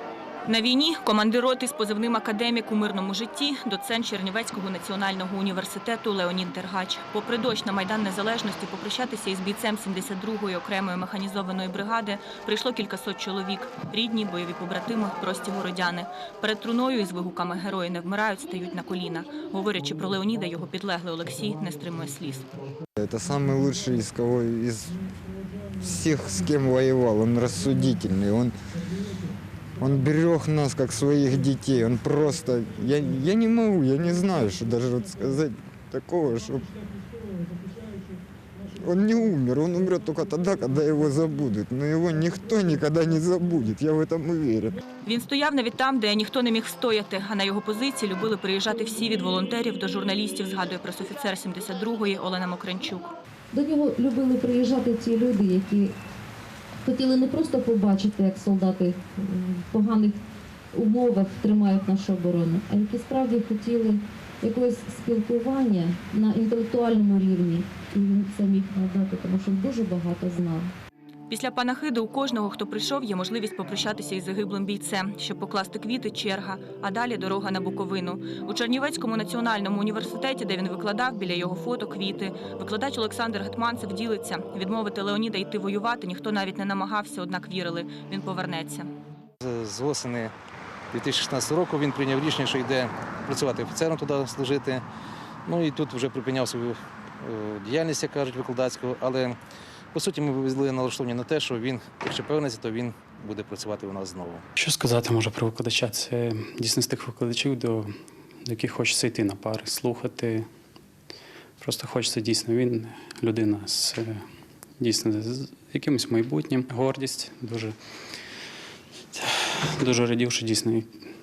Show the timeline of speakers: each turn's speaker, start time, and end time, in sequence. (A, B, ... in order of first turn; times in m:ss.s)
0:00.5-0:22.5 A
0:23.0-0:25.0 B
0:25.8-0:28.5 B
0:29.8-0:36.7 B
0:38.8-0:44.8 B
0:45.0-0:53.1 A
0:53.5-0:55.9 C
0:56.8-1:00.2 C
1:00.7-1:10.7 C
1:11.3-1:28.9 A
1:29.4-1:30.3 D
1:30.9-1:34.8 D
1:35.5-1:39.4 D
1:39.9-1:44.4 D
1:44.6-1:47.9 E
1:48.4-1:50.5 E
1:51.6-1:54.2 E
1:54.8-1:57.8 E
1:59.1-2:00.9 E